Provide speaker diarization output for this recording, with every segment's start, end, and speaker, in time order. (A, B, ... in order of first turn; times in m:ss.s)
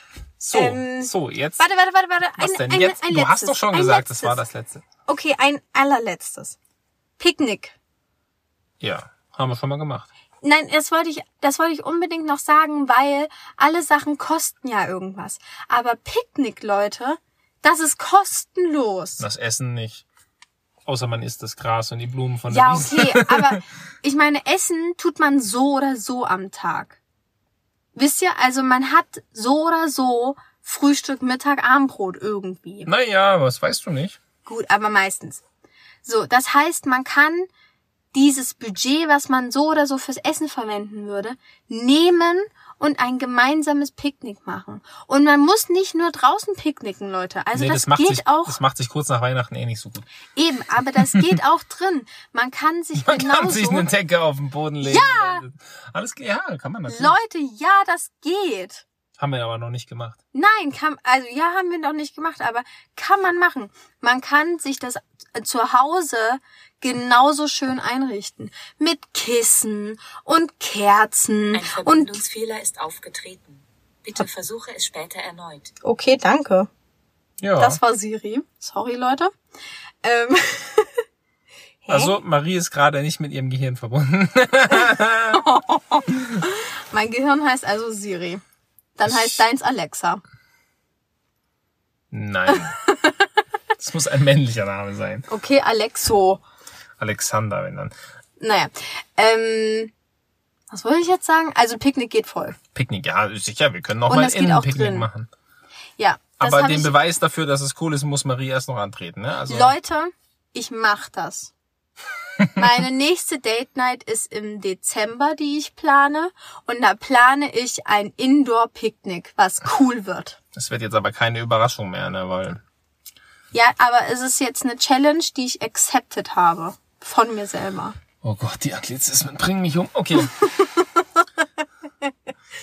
0:00.4-0:01.7 A
0:00.5-0:04.4 B
0:02.4-0:04.8 A
0:05.1-0:06.6 B
0:07.2-0:07.7 B
0:08.8-0:10.1 A
0:10.4-0:19.2 B
0:19.2-0:20.0 A
0:20.8-0:23.6 A
0:22.5-0:27.0 B
0:27.9-0:32.9 B
0:32.8-0:34.2 A
0:34.4-0:35.4 B
0:36.0-0:37.5 B
0:38.1-0:48.6 B
0:47.5-0:50.1 A
0:50.3-0:53.9 B
0:51.0-0:51.3 A
0:53.0-0:57.2 A
0:54.8-0:55.4 B
0:56.9-0:58.8 B
0:59.2-1:00.2 A
1:00.3-1:12.2 B
1:11.5-1:15.7 C
1:15.8-1:16.7 B
1:17.4-1:17.8 A
1:17.6-1:19.3 B
1:20.0-1:21.0 B
1:21.8-1:22.2 B
1:21.9-1:25.4 A
1:25.3-1:28.4 B
1:29.0-1:30.2 B
1:29.0-1:29.4 A
1:32.1-1:32.8 A
1:32.8-1:33.3 B
1:33.8-1:35.3 A
1:35.3-1:36.4 B
1:37.0-1:37.9 A
1:38.4-1:39.9 B
1:40.7-1:42.6 B
1:42.7-1:45.3 A
1:44.1-1:45.1 B
1:46.0-1:46.9 B
1:46.4-1:49.7 A
1:49.5-1:51.5 B
1:52.5-2:00.4 B
2:00.5-2:02.6 A
2:03.5-2:08.0 B
2:08.2-2:10.5 A
2:10.4-2:11.2 B